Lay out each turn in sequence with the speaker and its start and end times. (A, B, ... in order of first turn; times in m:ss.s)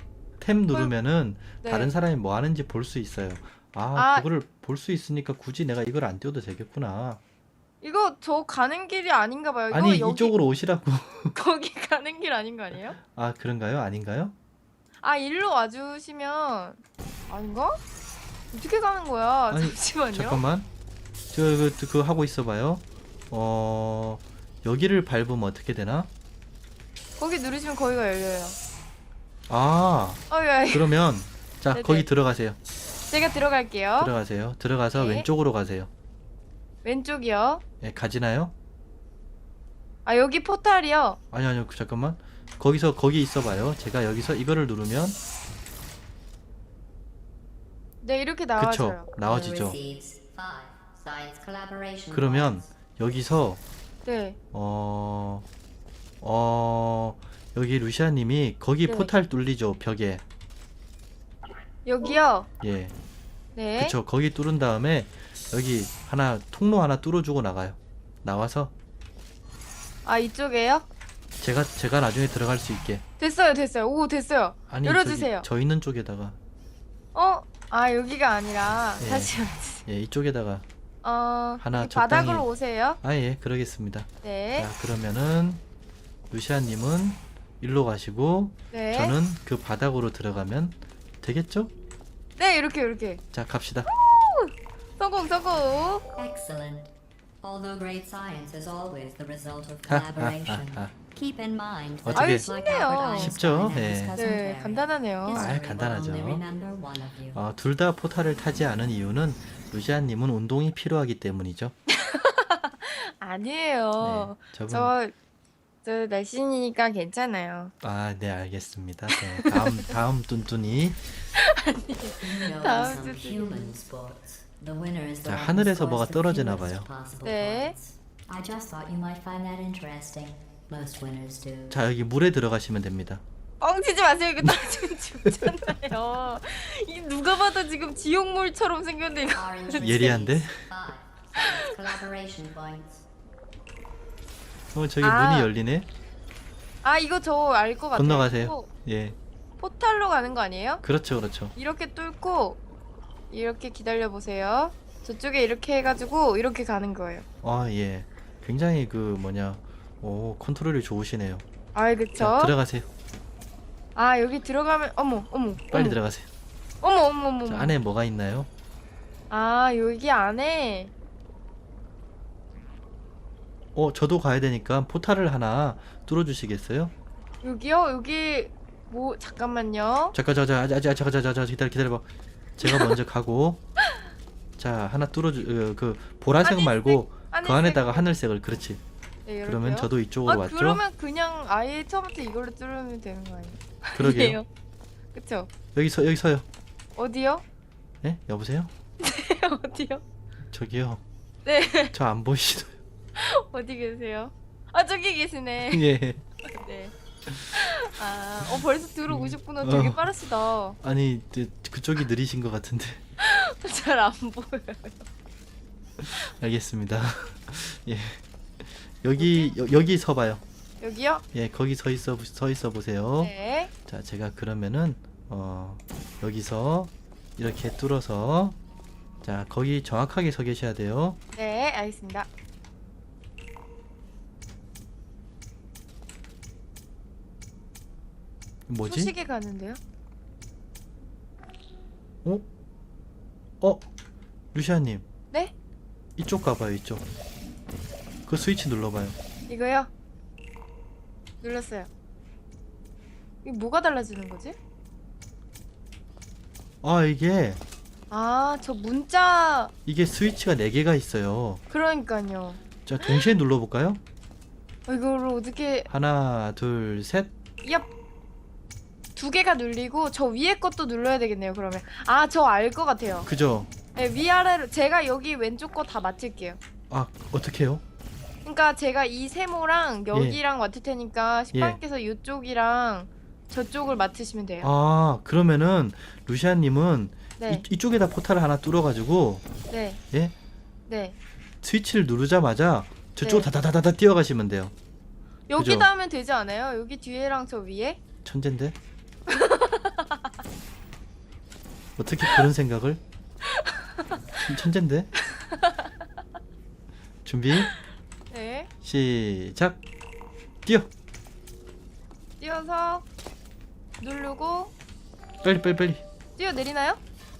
0:00.4-0:07.2 A
0:01.6-0:01.9 B
0:03.9-0:04.3 B
0:07.8-0:10.3 B
0:09.7-0:11.3 A
0:11.3-0:13.0 B
0:13.0-0:14.3 A
0:15.0-0:17.8 B
0:18.5-0:20.4 B
0:19.5-0:20.7 A
0:21.3-0:26.1 A
0:27.2-0:28.6 B
0:29.5-0:32.6 A
0:30.3-0:30.9 B
0:31.7-0:32.0 B
0:33.1-0:34.1 B
0:34.0-0:35.9 A
0:34.9-0:35.3 B
0:36.8-0:37.6 B
0:37.8-0:38.5 A
0:40.0-0:41.2 B
0:41.3-0:45.2 A
0:48.0-0:49.0 B
0:48.6-0:49.8 A
0:49.2-0:52.7 C
0:52.1-0:53.6 A
0:54.0-0:54.4 B
0:54.5-0:55.4 A
0:56.2-1:00.2 A
1:01.8-1:02.5 B
1:02.6-1:02.9 A
1:03.5-1:03.9 B
1:03.8-1:08.7 A
1:10.0-1:10.8 B
1:11.4-1:13.0 A
1:13.2-1:15.4 B
1:14.7-1:16.4 A
1:17.1-1:19.8 B
1:19.0-1:19.3 A
1:19.8-1:20.6 A
1:21.0-1:23.0 B
1:21.6-1:22.5 A
1:23.0-1:25.6 A
1:24.2-1:24.7 B
1:26.3-1:31.7 A
1:28.7-1:29.2 B
1:32.4-1:33.2 B
1:33.3-1:33.9 A
1:33.9-1:36.0 B
1:36.2-1:36.9 C
1:37.4-1:47.4 C
1:39.9-1:40.9 A
1:42.0-1:42.4 A
1:42.2-1:43.3 B
1:43.2-1:44.2 A
1:44.2-1:45.5 B
1:45.3-1:46.4 A
1:47.3-1:51.7 A
1:51.9-1:55.1 B
1:54.0-1:54.9 A
1:55.8-1:57.7 B
1:57.8-2:01.0 A
1:59.1-1:59.9 B
2:01.4-2:03.7 B
2:02.2-2:11.8 C
2:05.2-2:06.9 A
2:07.2-2:07.7 B
2:11.7-2:13.2 A
2:13.6-2:20.1 B
2:14.4-2:15.5 A
2:19.3-2:23.0 C
2:19.8-2:20.6 A
2:21.4-2:21.7 B
2:24.7-2:25.9 A
2:25.0-2:25.5 B
2:26.8-2:28.7 B
2:27.9-2:29.2 A
2:29.6-2:30.8 B
2:30.8-2:31.5 A
2:31.6-2:32.6 B
2:33.3-2:37.2 B
2:37.4-2:41.4 A
2:41.7-2:42.5 B
2:42.2-2:42.9 A
2:44.0-2:46.0 B
2:45.7-2:46.3 A
2:46.8-2:47.7 B
2:47.5-2:48.5 A
2:49.3-2:50.9 B
2:53.7-2:56.9 A
2:57.4-3:00.1 B
3:00.1-3:03.6 A
3:02.6-3:03.0 B
3:04.6-3:08.8 A
3:06.4-3:08.1 B
3:09.2-3:14.5 B
3:09.4-3:10.8 A
3:14.0-3:14.4 A
3:15.1-3:15.5 B
3:15.7-3:16.4 A
3:17.0-3:17.4 B
3:18.0-3:18.7 A
3:19.0-3:20.0 B
3:20.5-3:21.0 A
3:21.4-3:21.9 B
3:21.9-3:22.8 A
3:23.2-3:25.8 B
3:25.7-3:26.2 A
3:26.4-3:26.9 B
3:27.2-3:27.7 A
3:27.5-3:30.8 B
3:29.1-3:30.1 A
3:30.8-3:33.0 A
3:33.2-3:35.1 B
3:36.0-3:40.4 A
3:39.2-3:39.5 B
3:40.8-3:41.2 B
3:41.3-3:43.3 A
3:43.2-3:43.7 B
3:43.8-3:48.6 A
3:49.2-3:51.2 A
3:51.3-3:52.3 B
3:58.7-3:59.1 A
3:58.9-3:59.8 B
4:04.5-4:05.0 A
4:06.2-4:07.0 A
4:08.3-4:09.2 A
4:09.5-4:09.9 B
4:11.4-4:11.9 B
4:13.4-4:14.6 B
4:16.8-4:17.6 A
4:18.1-4:19.7 B
4:19.8-4:21.6 A
4:21.7-4:23.3 B
4:22.8-4:24.0 A
4:24.9-4:25.9 B
4:25.9-4:27.3 A
4:29.2-4:33.3 B
4:33.2-4:33.7 A
4:33.9-4:36.6 B
4:36.9-4:37.8 A
4:38.4-4:44.7 B
4:40.1-4:40.4 A
4:41.5-4:41.8 A
4:44.6-4:49.4 A
4:47.4-4:47.6 B
4:49.7-4:50.0 B
4:50.9-4:51.1 B
4:51.6-4:54.7 A
4:53.2-4:53.5 B
4:55.5-4:58.0 B
4:55.6-4:55.9 A
4:58.2-4:58.7 A
4:59.3-5:00.2 B
5:02.0-5:03.0 A
5:03.5-5:04.1 B
5:04.4-5:05.1 A
5:05.3-5:05.8 B
5:07.2-5:07.7 A
5:08.3-5:08.7 B
5:08.8-5:09.8 A
5:12.4-5:13.0 B
5:14.0-5:14.7 B
5:15.4-5:16.0 A
5:16.4-5:17.0 B